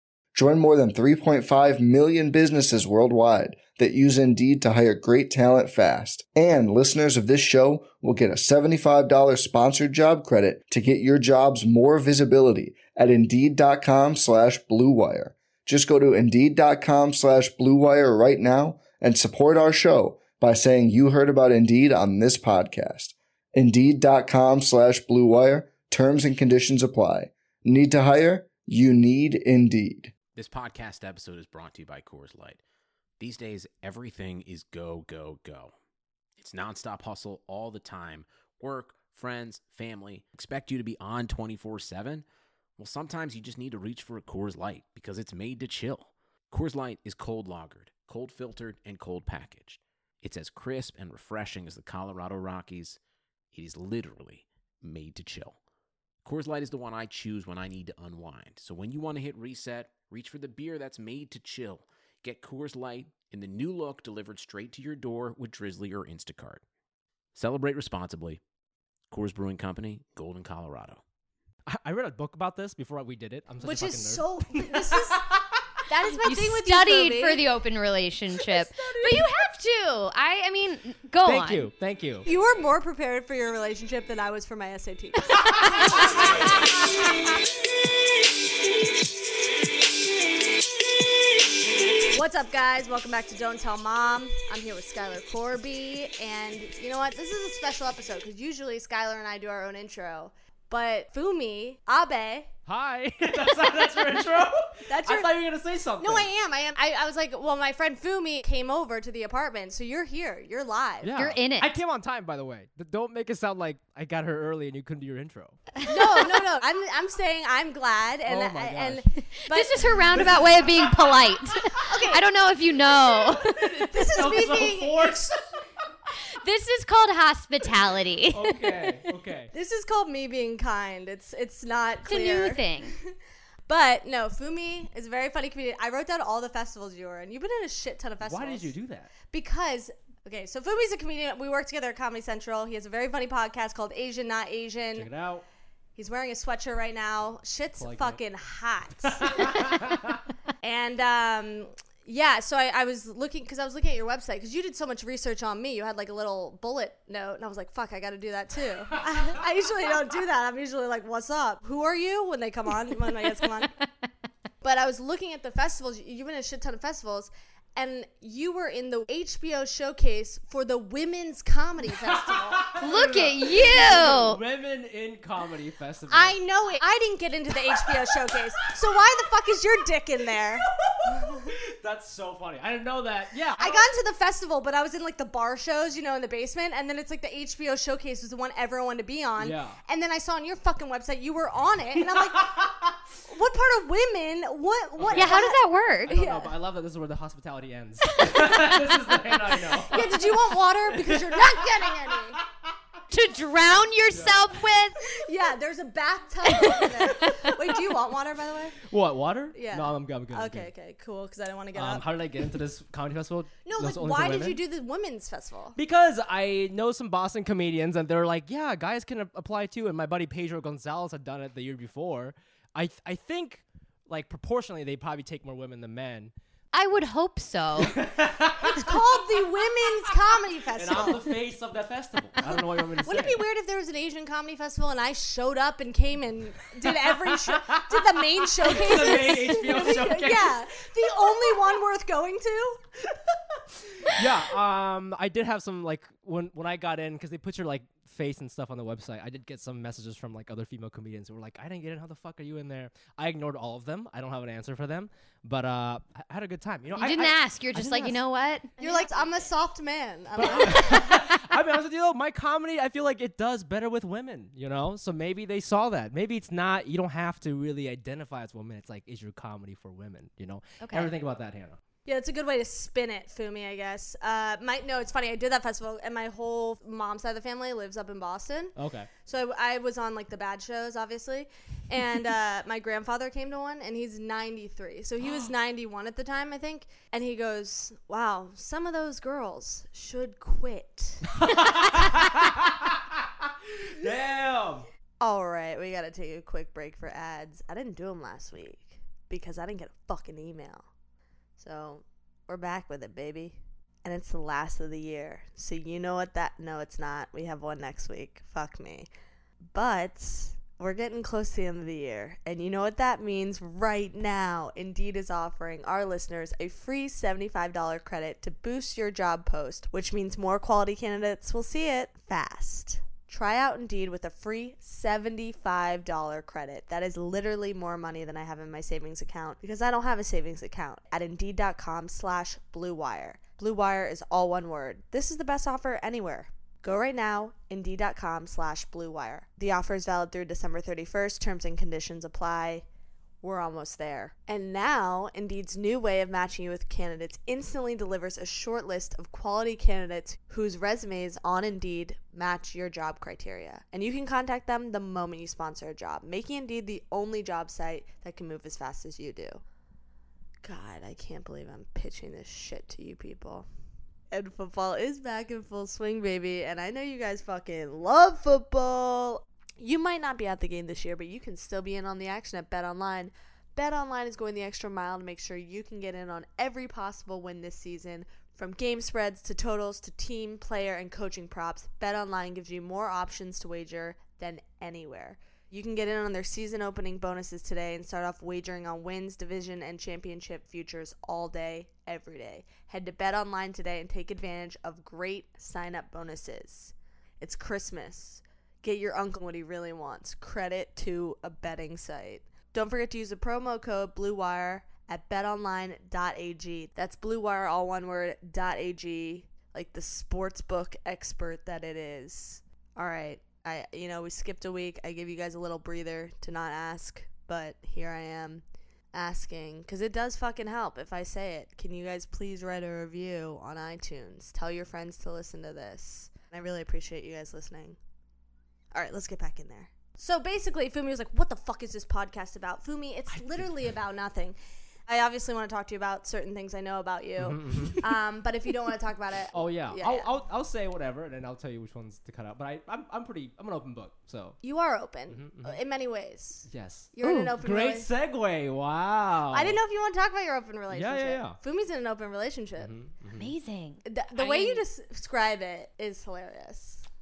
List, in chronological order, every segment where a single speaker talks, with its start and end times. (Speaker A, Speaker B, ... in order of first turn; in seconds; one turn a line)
Speaker A: 0.3-30.1
Speaker B: 30.3-32.6
Speaker B: 33.2-35.7
Speaker B: 36.4-42.2
Speaker B: 42.8-53.0
Speaker B: 53.5-55.6
Speaker B: 56.2-66.6
Speaker B: 67.3-68.4
Speaker B: 69.1-71.0
Speaker C: 71.7-75.4
Speaker D: 73.6-75.2
Speaker D: 75.9-77.4
Speaker E: 76.2-81.7
Speaker D: 78.4-79.2
Speaker C: 81.2-82.3
Speaker D: 82.2-86.6
Speaker D: 92.1-102.5
Speaker C: 102.7-106.3
Speaker D: 104.9-105.4
Speaker D: 106.0-111.1
Speaker C: 111.0-115.6
Speaker E: 111.2-111.7
Speaker D: 115.8-120.5
Speaker C: 118.2-119.0
Speaker E: 119.5-123.6
Speaker C: 120.1-120.9
Speaker D: 121.8-122.2
Speaker C: 123.3-125.4
Speaker D: 123.8-125.2
Speaker E: 126.3-128.6
Speaker C: 128.3-129.5
Speaker D: 129.5-132.8
Speaker E: 132.1-132.9
Speaker D: 133.7-138.7
Speaker C: 138.2-139.1
Speaker D: 139.2-145.1
Speaker C: 144.9-145.4
Speaker D: 145.9-149.9
Speaker C: 147.8-148.2
Speaker C: 149.1-150.2
Speaker D: 150.6-163.7
Speaker D: 164.6-172.7
Speaker C: 171.9-176.3
Speaker E: 172.8-174.4
Speaker D: 176.1-181.5
Speaker C: 177.7-178.0
Speaker C: 180.7-183.9
Speaker D: 183.6-192.7
Speaker C: 189.4-189.8
Speaker C: 192.4-192.7
Speaker D: 193.2-196.5
Speaker C: 195.0-195.4
Speaker E: 195.1-196.1
Speaker C: 196.1-202.1
Speaker E: 198.2-198.7
Speaker D: 199.9-202.4
Speaker E: 203.1-205.0
Speaker C: 204.1-204.4
Speaker D: 205.1-208.8
Speaker E: 206.4-207.4
Speaker C: 208.8-210.7
Speaker D: 209.5-212.0
Speaker C: 211.7-214.6
Speaker D: 213.6-215.8
Speaker C: 215.7-226.3
Speaker E: 226.7-228.0
Speaker C: 227.8-230.2
Speaker D: 228.7-231.3
Speaker C: 230.7-233.4
Speaker D: 232.4-242.8
Speaker C: 236.8-240.6
Speaker C: 241.2-241.8
Speaker C: 243.9-258.2
Speaker E: 256.9-259.4
Speaker D: 258.8-261.1
Speaker C: 260.3-271.8
Speaker E: 270.8-271.1
Speaker D: 272.1-291.4
Speaker C: 278.8-279.1
Speaker C: 285.2-285.5
Speaker C: 291.3-293.1
Speaker C: 293.7-294.9
Speaker D: 295.2-300.8
Speaker D: 301.6-309.1
Speaker D: 309.7-342.8
Speaker D: 343.4-359.6
Speaker D: 360.6-363.7
Speaker D: 364.3-428.0
Speaker D: 428.9-434.6
Speaker C: 433.3-433.6
Speaker D: 435.1-440.3
Speaker C: 437.4-438.0
Speaker C: 439.5-444.6
Speaker D: 444.6-448.1
Speaker C: 445.3-445.8
Speaker C: 446.7-449.8
Speaker D: 449.5-452.9
Speaker C: 450.9-451.6
Speaker C: 452.8-453.5
Speaker E: 453.3-454.8
Speaker D: 454.0-457.0